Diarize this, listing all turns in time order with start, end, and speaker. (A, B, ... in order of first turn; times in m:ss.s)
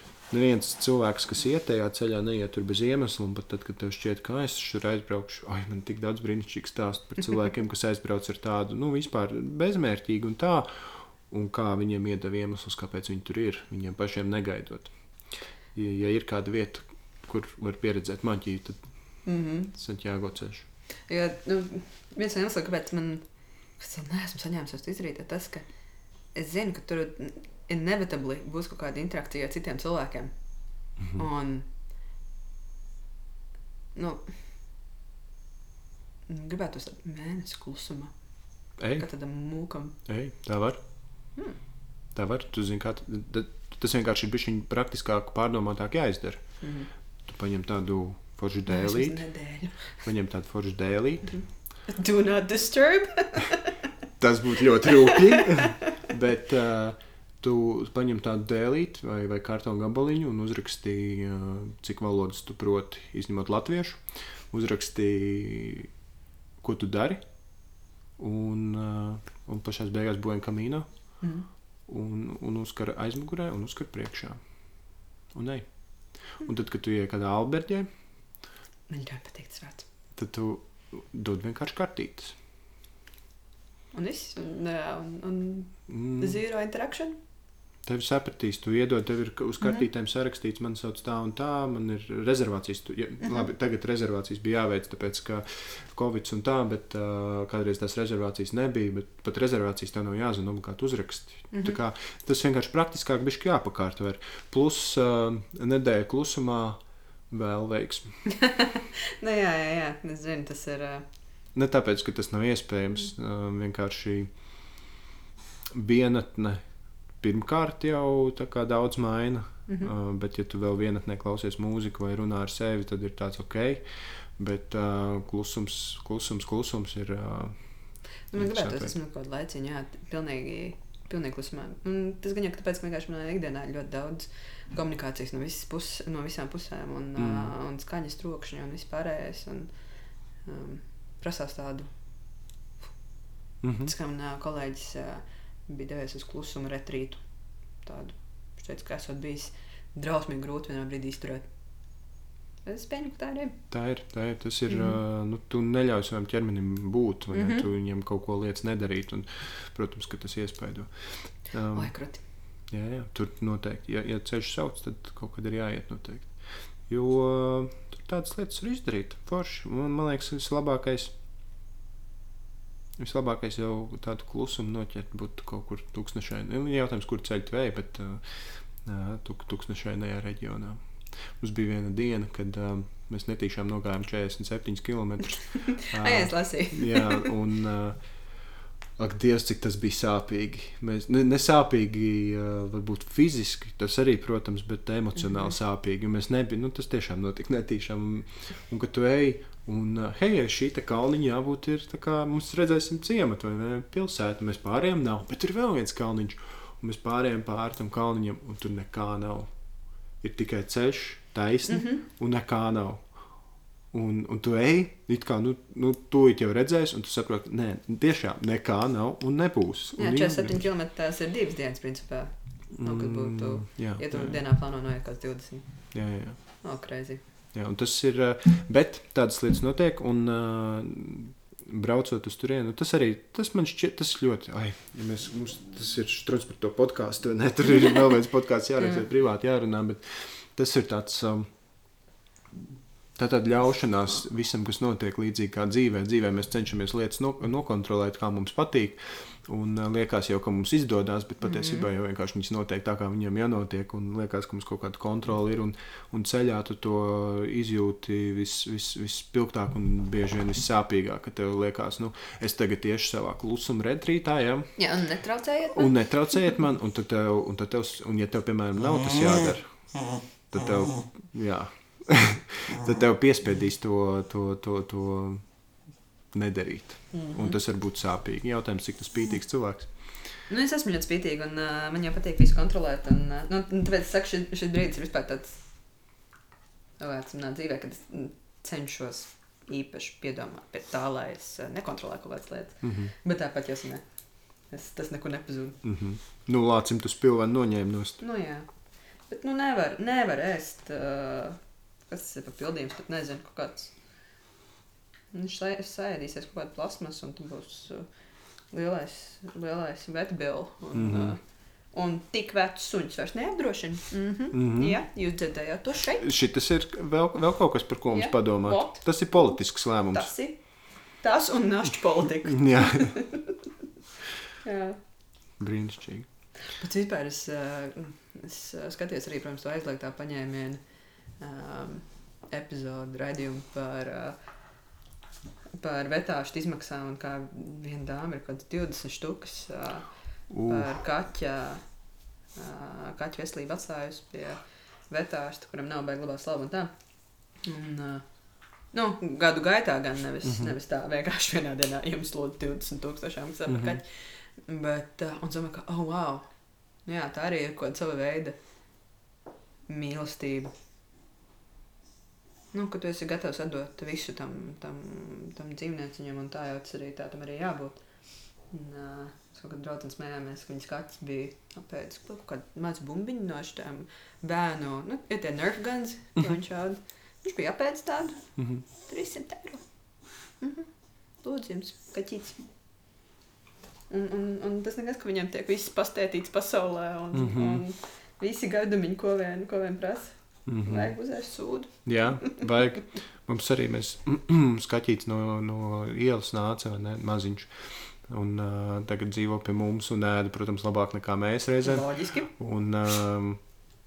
0:00.3-0:18.8 A
0:19.2-0:19.7 B
0:19.7-0:20.6 A
0:21.1-0:23.2 B
0:23.8-0:25.7 B
0:26.3-0:30.3 B
0:31.0-0:31.2 A
0:31.1-0:31.6 B
0:33.9-0:34.2 B
0:36.3-0:38.1 B
0:38.8-0:39.1 A
0:39.0-0:40.0 B
0:40.0-0:40.8 A
0:42.1-0:46.6 A
0:46.6-0:46.9 B
0:47.2-0:49.2 A
0:48.6-0:50.0 B
0:50.0-0:51.3 A
0:51.2-0:53.7 B
0:54.2-1:05.9 A
0:54.8-0:56.0 B
1:06.6-1:07.2 A
1:08.2-1:10.9 A
1:11.2-1:11.5 B
1:11.9-1:14.4 A
1:15.3-1:15.7 A
1:16.4-1:17.9 A
1:18.9-1:19.8 B
1:20.1-1:22.3 A
1:23.9-1:27.2 B
1:25.9-1:26.4 A
1:27.8-1:48.2 A
1:41.5-1:41.8 B
1:48.3-1:51.0 B
1:51.5-1:54.3 A
1:55.7-1:56.6 A
1:57.2-2:07.7 A
1:59.7-1:59.9 B
2:08.3-2:19.7 B
2:08.3-2:08.9 A
2:17.2-2:17.5 A
2:20.4-2:21.9 B
2:23.6-2:23.9 A
2:23.8-2:27.2 B
2:27.8-2:31.5 B
2:32.6-2:33.6 B
2:33.7-2:41.9 A
2:34.7-2:34.9 B
2:37.3-2:37.6 B
2:41.7-2:42.2 B
2:42.7-2:51.1 A
2:53.0-3:08.0 A
3:05.5-3:07.3 B
3:09.0-3:29.5 A
3:15.2-3:15.5 B
3:30.2-3:33.0 A
3:31.7-3:32.0 B
3:33.9-3:40.7 A
3:40.0-3:45.9 B
3:42.8-3:44.4 A
3:45.9-3:46.4 A
3:46.6-3:47.2 B
3:47.5-4:01.5 A
3:57.7-3:58.0 B
4:03.2-4:24.8 A
4:11.4-4:11.9 B
4:24.8-4:25.9 B
4:25.7-4:35.4 A
4:36.3-4:39.9 A
4:37.1-4:37.6 B
4:40.5-4:45.6 B
4:47.0-4:54.0 B
4:52.8-4:53.1 A
4:54.7-4:55.8 B
4:55.8-4:58.2 A
4:58.2-4:58.7 B
4:59.3-5:04.0 B
5:05.3-5:08.1 B
5:08.7-5:11.4 B
5:10.9-5:11.4 A
5:11.9-5:16.2 B
5:14.5-5:15.0 A
5:16.2-5:20.3 A
5:18.1-5:19.6 B
5:20.1-5:20.6 B
5:21.2-5:23.6 B
5:22.4-5:23.2 A
5:24.6-5:25.0 B
5:25.6-5:26.3 A
5:26.6-5:30.8 B
5:31.4-5:34.3 B
5:35.8-5:40.1 B
5:40.5-5:40.9 A
5:40.6-5:41.8 B
5:42.5-5:46.9 B
5:47.5-5:48.2 B
5:48.9-5:56.5 B
5:50.4-5:50.7 A
5:53.7-5:54.0 A
5:57.0-5:58.6 B
5:59.9-6:00.7 B
6:02.7-6:08.0 B
6:08.7-6:18.5 B
6:18.6-6:18.8 A
6:19.0-6:19.9 B
6:20.6-6:20.9 B
6:21.4-6:22.6 B
6:24.1-6:32.6 B
6:27.3-6:27.8 A
6:30.7-6:31.1 A
6:32.0-6:43.6 A
6:41.8-6:42.5 B